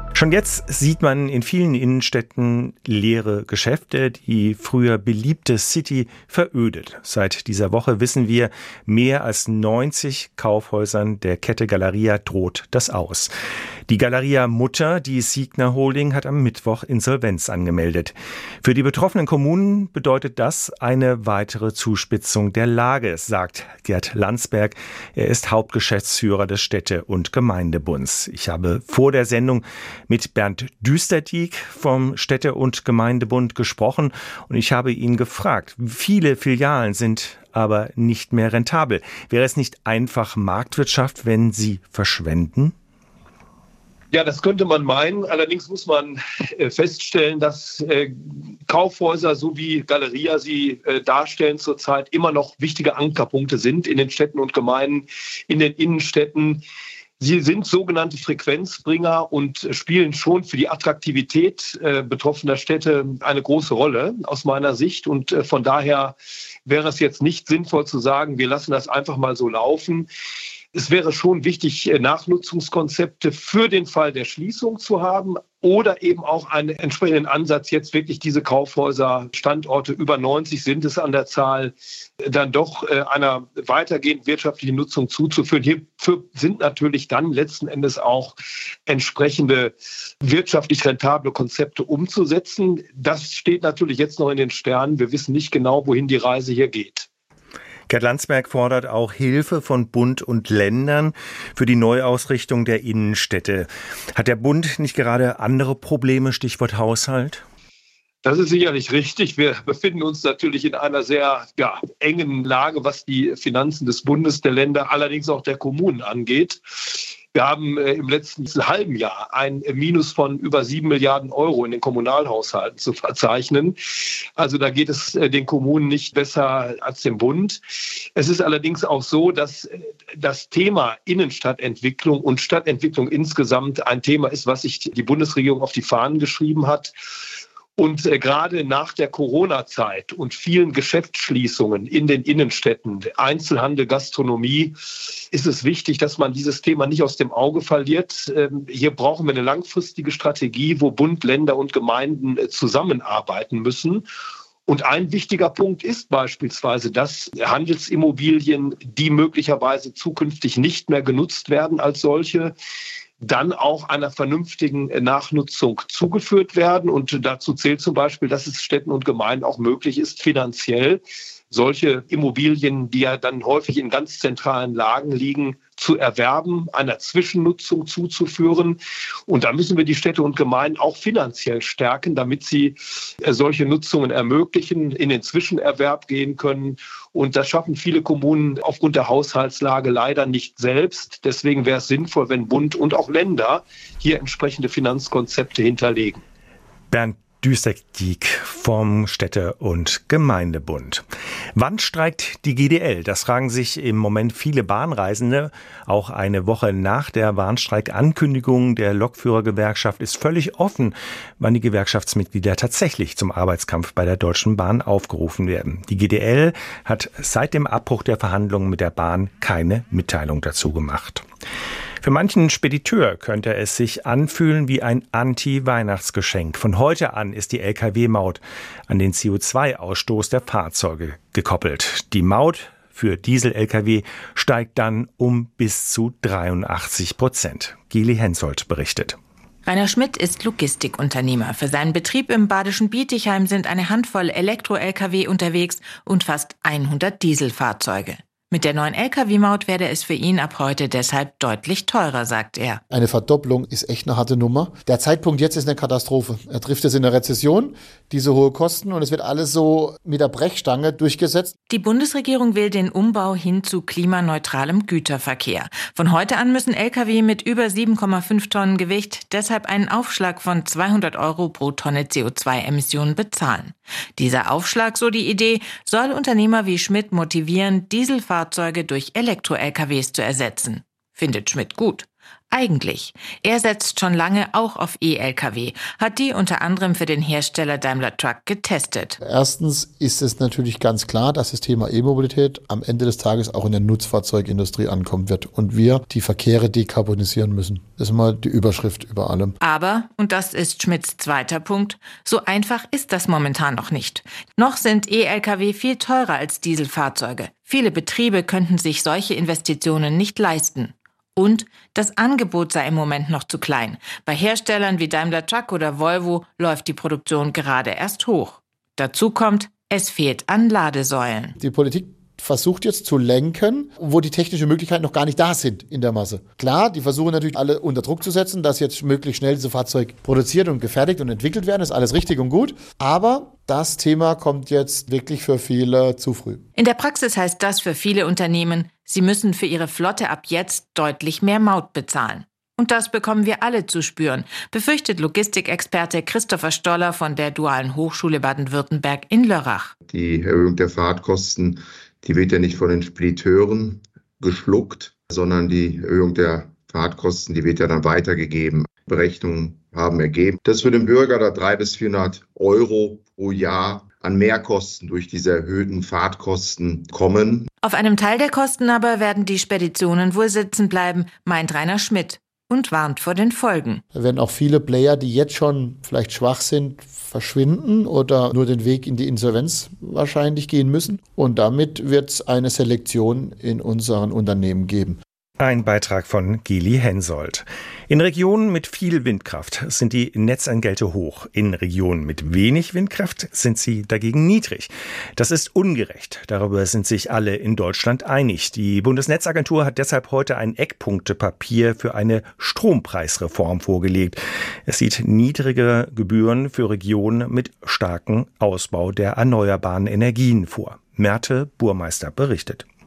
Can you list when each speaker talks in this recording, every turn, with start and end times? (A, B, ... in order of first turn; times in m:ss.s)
0:00.2-0:13.3 A
0:13.9-0:42.7 A
0:44.1-0:56.6 B
0:57.2-1:10.1 B
1:10.7-1:28.3 B
1:28.9-1:37.1 B
1:37.9-1:47.4 A
1:48.2-2:16.9 B
2:17.8-2:34.0 B
2:34.7-2:42.5 B
2:43.2-3:16.2 B
3:16.9-3:21.0 A
3:21.6-3:41.2 A
3:42.0-3:59.2 A
3:59.6-4:12.8 C
4:12.9-4:21.5 D
4:21.7-4:49.2 C
4:49.2-4:59.5 D
4:59.6-5:21.5 C
5:21.6-5:36.6 D
5:36.8-5:49.9 C
5:50.1-6:07.7 E
6:07.8-6:14.0 C
6:14.1-6:25.2 D
6:25.6-6:52.8 A